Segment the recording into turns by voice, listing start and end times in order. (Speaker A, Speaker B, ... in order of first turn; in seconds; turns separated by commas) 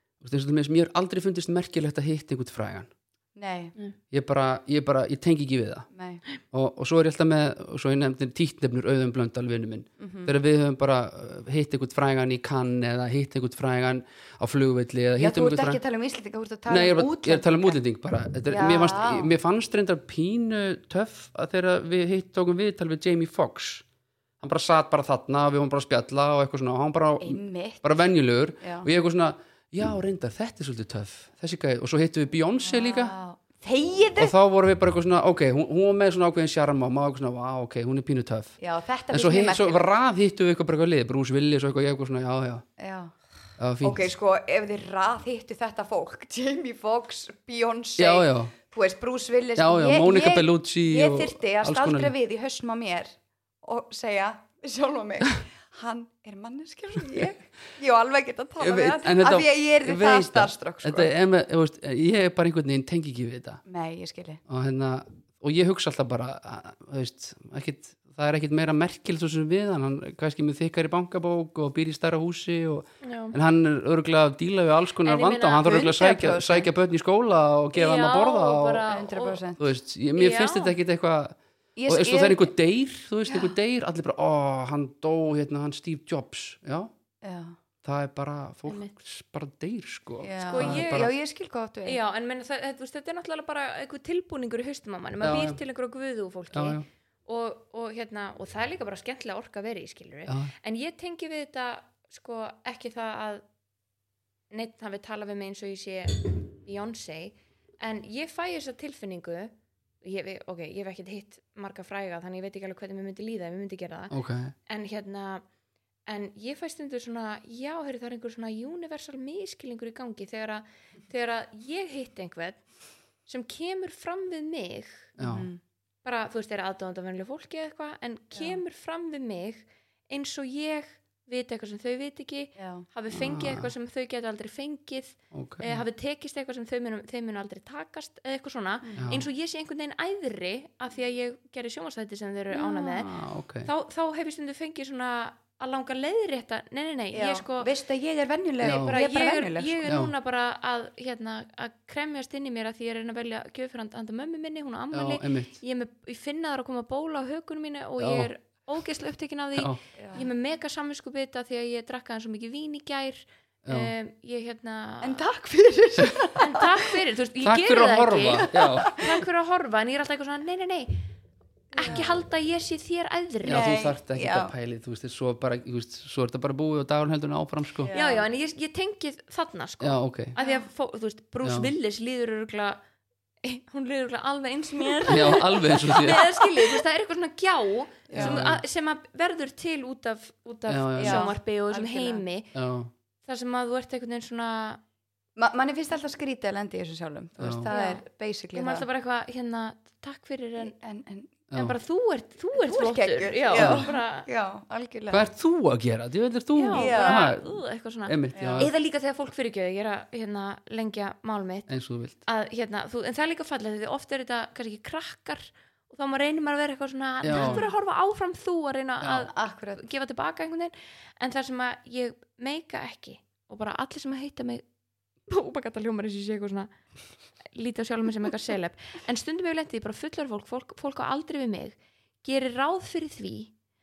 Speaker A: 0.2-2.9, Speaker B: 3.3-3.7, Speaker A: 4.1-5.9, Speaker B: 5.9-6.2, Speaker A: 6.5-15.8, Speaker B: 10.0-10.3, Speaker B: 15.2-17.8, Speaker A: 16.7-23.8, Speaker B: 18.5-19.3, Speaker A: 24.4-33.1, Speaker B: 27.2-28.1, Speaker B: 28.6-28.9, Speaker B: 32.6-34.3, Speaker A: 34.2-38.6, Speaker B: 38.6-39.9, Speaker A: 39.1-42.6, Speaker B: 42.8-43.1, Speaker A: 43.6-44.1, Speaker B: 43.8-61.1, Speaker A: 48.0-48.5, Speaker A: 49.6-52.1, Speaker A: 58.6-63.6, Speaker B: 63.6-64.4, Speaker A: 64.5-78.8, Speaker C: 73.0-73.3, Speaker C: 75.0-75.8, Speaker B: 75.6-76.7, Speaker C: 77.7-79.4, Speaker B: 78.9-79.6, Speaker A: 79.6-86.9, Speaker C: 80.2-80.7, Speaker B: 81.8-82.5, Speaker B: 83.2-83.5, Speaker B: 87.2-87.5, Speaker A: 87.8-91.1, Speaker C: 88.7-88.9, Speaker B: 90.2-92.0, Speaker C: 90.4-91.1, Speaker C: 91.8-103.4, Speaker A: 95.2-95.6, Speaker A: 96.5-96.8, Speaker A: 100.3-100.5, Speaker C: 104.5-109.5, Speaker C: 110.0-114.1, Speaker A: 114.1-114.5, Speaker C: 114.7-115.4, Speaker C: 116.1-122.6, Speaker C: 123.3-125.1, Speaker A: 125.2-125.5, Speaker B: 125.2-125.6, Speaker C: 126.0-143.1, Speaker B: 128.3-128.6, Speaker B: 132.6-132.8, Speaker A: 133.1-133.7, Speaker A: 135.3-135.8, Speaker A: 139.0-139.2, Speaker B: 142.5-143.0, Speaker A: 143.0-143.7, Speaker C: 143.6-147.7, Speaker B: 147.1-149.8, Speaker A: 148.6-148.9, Speaker C: 148.6-165.3, Speaker A: 149.8-150.1, Speaker A: 154.9-155.6, Speaker A: 158.0-158.3, Speaker B: 160.0-160.3, Speaker A: 163.7-163.9, Speaker B: 165.0-166.9, Speaker C: 166.3-171.0, Speaker A: 167.4-169.0, Speaker B: 168.5-169.2, Speaker B: 171.7-172.2, Speaker C: 171.7-173.7, Speaker A: 173.4-177.9, Speaker B: 173.4-174.5, Speaker B: 177.8-178.3, Speaker C: 177.9-182.8, Speaker A: 179.8-180.3, Speaker B: 180.4-180.7, Speaker A: 181.4-181.7, Speaker C: 183.4-192.5, Speaker A: 185.1-186.3, Speaker B: 188.1-188.4, Speaker A: 188.1-188.6, Speaker A: 190.7-191.3, Speaker B: 191.0-192.2, Speaker A: 192.5-192.9, Speaker C: 193.2-194.8, Speaker B: 195.3-198.9, Speaker A: 197.4-197.7, Speaker C: 197.7-200.7, Speaker B: 200.6-201.3, Speaker C: 201.5-204.3, Speaker B: 202.6-205.2, Speaker A: 203.5-203.9, Speaker A: 205.1-207.4, Speaker C: 206.5-211.7, Speaker B: 206.7-207.3, Speaker A: 208.1-208.7, Speaker B: 208.3-208.7, Speaker A: 211.7-212.2, Speaker C: 212.2-224.6, Speaker A: 217.2-217.7, Speaker B: 217.3-217.7, Speaker B: 219.0-219.8, Speaker C: 225.3-226.7, Speaker C: 227.5-233.5